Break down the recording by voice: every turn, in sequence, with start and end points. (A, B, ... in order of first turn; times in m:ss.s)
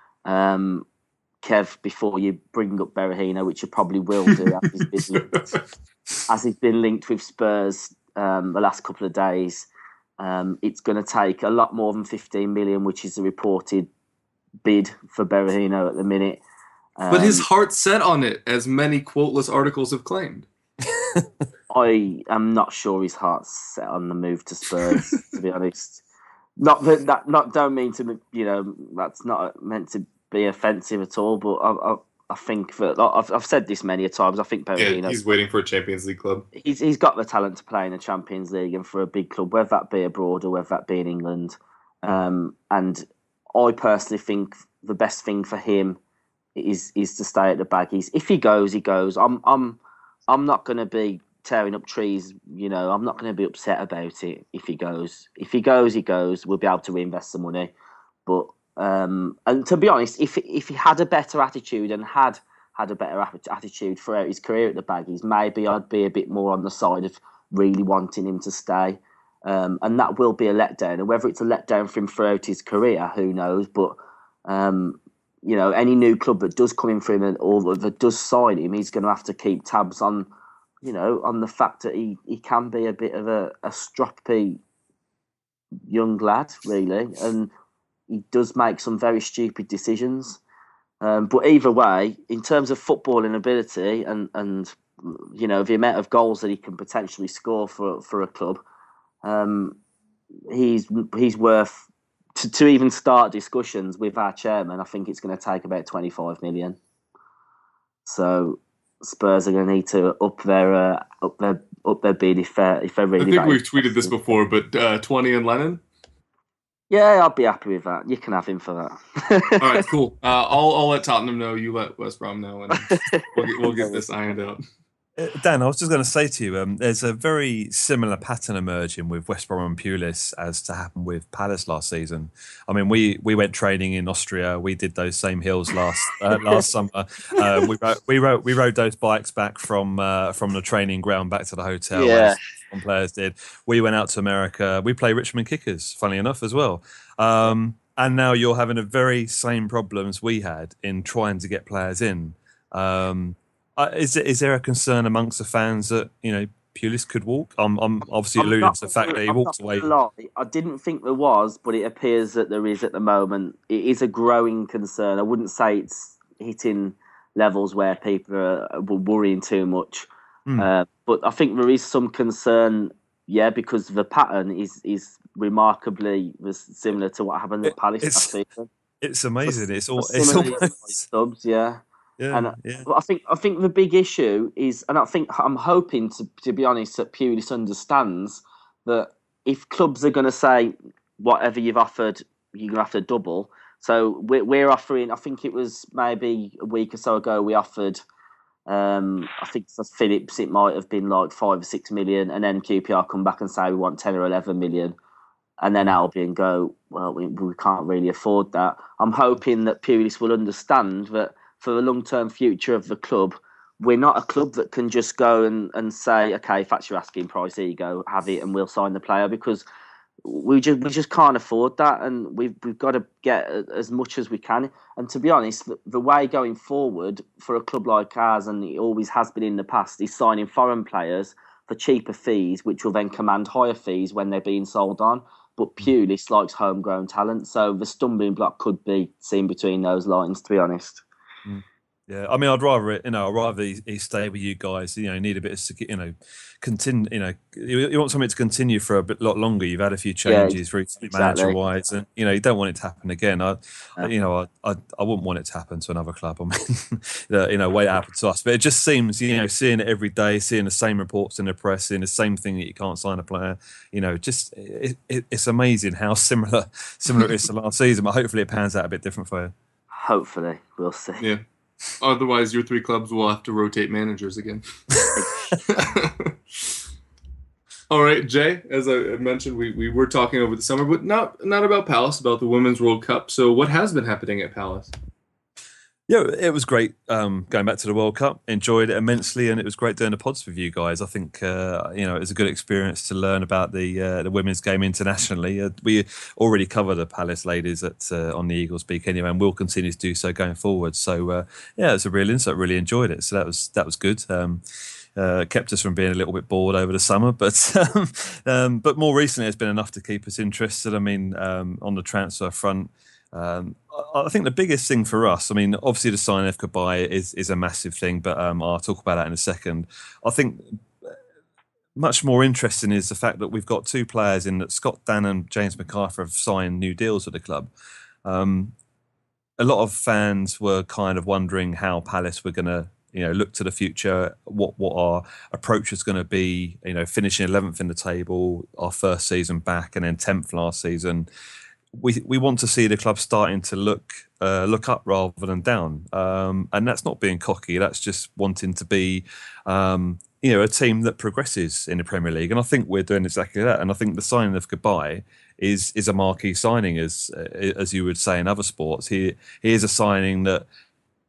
0:00.2-0:00.8 A
0:01.4-0:05.3 A
0:04.3-0:05.6 B
0:06.3-0:09.7 A
0:10.2-0:13.9 A
0:14.6-0:16.4 A
0:17.0-0:17.4 A
0:17.1-0:20.4 B
0:21.0-0:21.3 C
0:21.7-0:26.0 A
0:26.6-0:35.2 A
0:34.8-0:36.4 B
0:36.5-0:43.0 A
0:43.5-0:46.0 A
0:46.5-0:57.7 A
0:58.2-1:20.3 A
1:20.8-1:24.6 A
1:25.9-1:27.5 A
1:28.1-1:30.4 A
1:31.0-1:38.6 A
1:39.2-1:39.8 A
1:40.5-1:41.8 A
1:42.4-1:46.8 A
1:48.0-1:54.1 A
1:53.2-1:55.8 B
1:56.9-1:59.8 A
1:59.6-2:04.6 B
2:02.9-2:04.0 A
2:05.2-2:39.9 C
2:16.4-2:16.7 A
2:17.4-2:17.7 A
2:21.9-2:22.4 A
2:38.4-2:58.7 A
2:57.7-2:58.3 C
2:59.0-3:01.0 C
2:59.4-3:18.0 A
3:02.2-3:02.9 C
3:18.7-3:24.9 A
3:25.6-3:39.6 A
3:40.2-4:01.0 A
4:01.4-4:29.5 C
4:10.2-4:11.6 A
4:29.9-4:31.3 A
4:32.0-4:36.7 B
4:37.9-4:44.9 B
4:46.1-5:04.6 C
5:05.2-5:20.8 C
5:22.0-5:27.7 C
5:28.2-5:28.7 C
5:29.6-5:41.3 C
5:41.9-6:00.6 C